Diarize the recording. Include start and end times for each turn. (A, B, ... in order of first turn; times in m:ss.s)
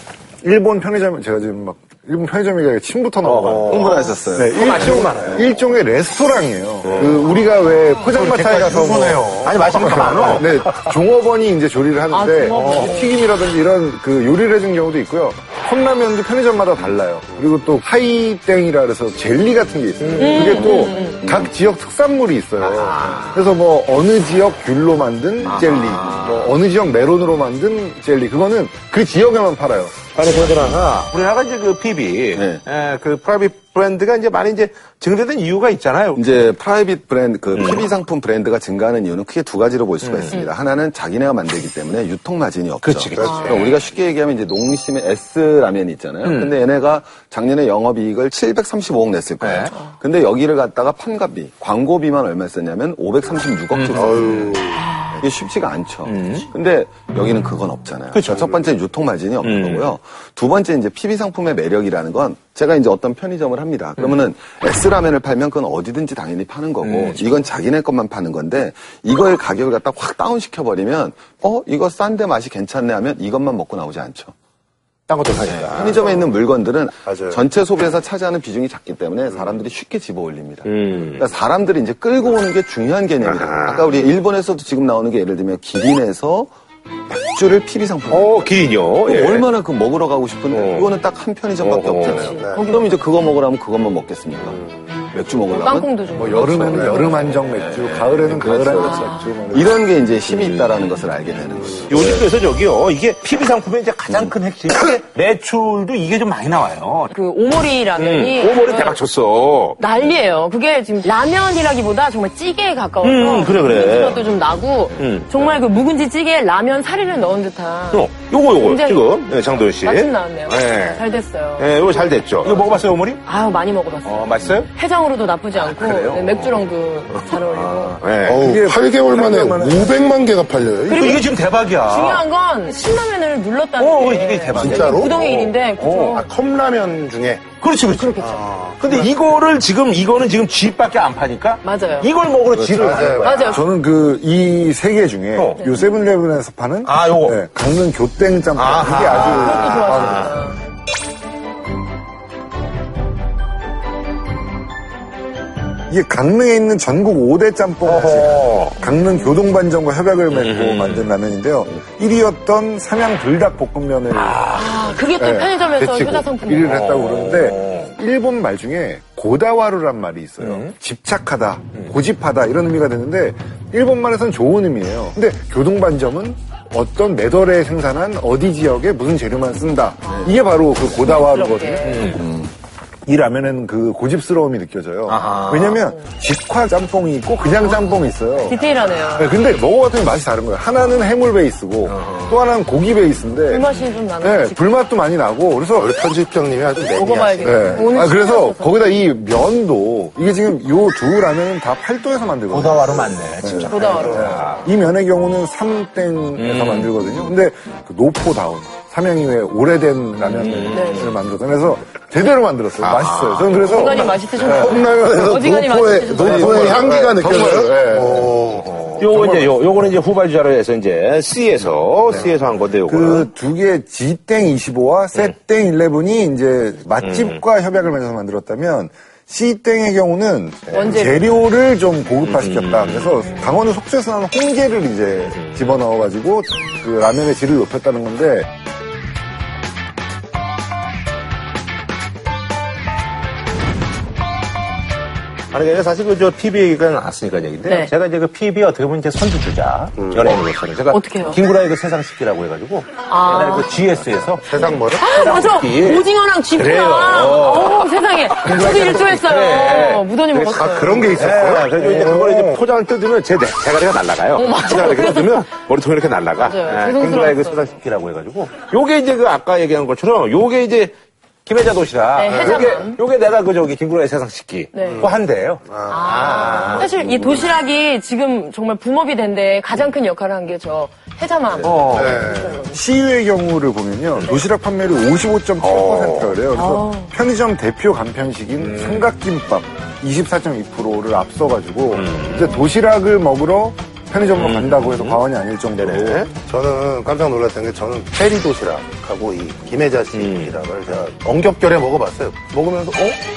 0:00.4-0:30.0 A
0:03.2-0:05.6 B
0:03.7-0:05.5 C
0:06.8-0:07.4 B
0:08.2-0:10.8 B
0:08.2-0:10.4 D
0:12.1-0:13.2 E
0:20.0-0:20.8 B
0:20.2-0:21.3 E
0:22.6-0:23.5 B
0:25.4-0:26.6 B
0:25.5-0:26.2 C
0:30.2-0:36.4 B
0:30.4-0:30.6 C
0:32.3-0:32.6 C
0:36.2-0:54.4 C
0:37.5-0:37.9 B
0:40.0-0:40.4 B
0:42.8-0:43.4 B
0:43.2-0:43.6 D
0:43.3-0:43.8 E
0:46.2-0:46.5 B
0:49.4-0:49.8 B
0:53.7-0:54.6 B
0:53.9-0:54.8 D
0:54.7-0:55.2 E
0:55.2-1:14.3 C
0:56.0-0:56.5 B
0:58.1-0:58.5 B
0:59.4-1:00.0 B
1:04.0-1:04.2 B
1:06.8-1:07.4 B
1:15.1-1:16.3 B
1:15.5-1:26.5 C
1:17.1-1:17.4 D
1:20.6-1:21.3 B
1:23.2-1:23.9 B
1:27.1-1:28.5 C
1:28.1-1:29.5 B
1:29.0-1:34.6 C
1:30.5-1:31.0 B
1:31.6-1:32.3 B
1:32.1-1:33.2 E
1:32.3-1:32.6 D
1:34.4-1:34.9 D
1:35.0-1:37.3 E
1:35.1-1:35.9 C
1:36.2-1:39.8 A
1:36.3-1:37.4 B
1:36.5-1:37.0 D
1:37.4-1:42.2 C
1:38.0-1:38.5 B
1:38.7-1:39.4 E
1:40.2-1:41.2 B
1:41.8-1:47.1 B
1:47.1-1:49.0 E
1:48.0-1:49.9 B
1:49.8-2:02.2 E
1:53.0-1:54.2 B
1:54.9-1:55.6 B
1:57.9-2:01.0 B
2:01.6-2:03.2 B
2:03.2-2:08.1 E
2:04.0-2:04.7 B
2:05.5-2:08.5 B
2:08.2-2:11.2 D
2:08.3-2:10.0 A
2:10.9-2:11.2 E
2:10.9-2:12.2 B
2:11.8-2:16.3 E
2:13.8-2:16.2 B
2:14.6-2:15.4 D
2:16.1-2:17.4 D
2:17.6-2:18.2 B
2:17.8-2:18.7 E
2:18.2-2:19.1 D
2:18.8-2:23.5 B
2:21.6-2:22.1 E
2:22.6-2:23.4 D
2:23.2-2:23.7 E
2:23.4-2:30.2 A
2:25.3-2:25.8 B
2:25.6-2:25.9 E
2:26.8-2:27.4 B
2:28.6-2:30.4 B
2:29.1-2:30.6 E
2:35.9-2:44.6 A
2:37.8-2:38.9 B
2:39.0-2:39.3 E
2:40.3-2:41.1 B
2:44.1-2:45.0 B
2:44.5-2:46.6 E
2:45.1-3:02.2 A
2:46.6-2:47.9 B
2:50.4-2:50.7 B
3:00.0-3:00.4 E
3:00.1-3:00.4 C
3:00.9-3:02.2 E
3:01.8-3:02.2 B
3:02.1-3:02.5 C
3:03.1-3:15.9 A
3:05.1-3:05.8 B
3:07.6-3:09.4 E
3:11.9-3:12.4 B
3:13.5-3:14.8 E
3:13.7-3:14.0 B
3:15.8-3:17.9 D
3:16.9-3:19.0 E
3:17.4-3:34.8 A
3:22.5-3:24.7 B
3:23.7-3:24.2 E
3:26.4-3:26.9 B
3:30.2-3:31.2 B
3:30.7-3:31.1 E
3:32.8-3:34.6 B
3:33.7-3:36.8 E
3:34.5-3:39.0 D
3:36.2-3:38.4 A
3:36.3-3:36.7 C
3:38.5-3:43.3 B
3:39.0-3:39.5 A
3:42.9-3:58.5 A
3:47.0-3:47.4 B
3:50.7-3:51.3 B
3:50.7-3:51.3 E
3:52.2-3:53.4 B
3:53.3-3:53.6 E
3:55.2-3:55.8 B
4:05.5-4:30.9 B
4:07.6-4:07.9 E
4:10.9-4:11.4 E
4:13.0-4:13.7 E
4:14.4-4:21.1 E
4:14.5-4:15.1 D
4:20.6-4:22.6 D
4:24.3-4:25.5 E
4:26.4-4:27.7 E
4:31.4-4:37.3 B
4:32.2-4:33.0 E
4:32.2-4:32.7 D
4:34.7-4:35.0 E
4:34.8-4:36.9 D
4:35.8-4:42.8 E
4:37.0-4:37.3 C
4:41.6-4:42.2 B
4:41.9-4:42.6 D
4:42.7-4:56.3 A
4:45.6-4:46.5 B
4:46.5-4:47.1 E
4:48.6-4:49.1 B
4:51.9-4:52.6 B
4:54.3-4:56.3 B
4:56.4-5:03.2 D
5:00.1-5:00.6 B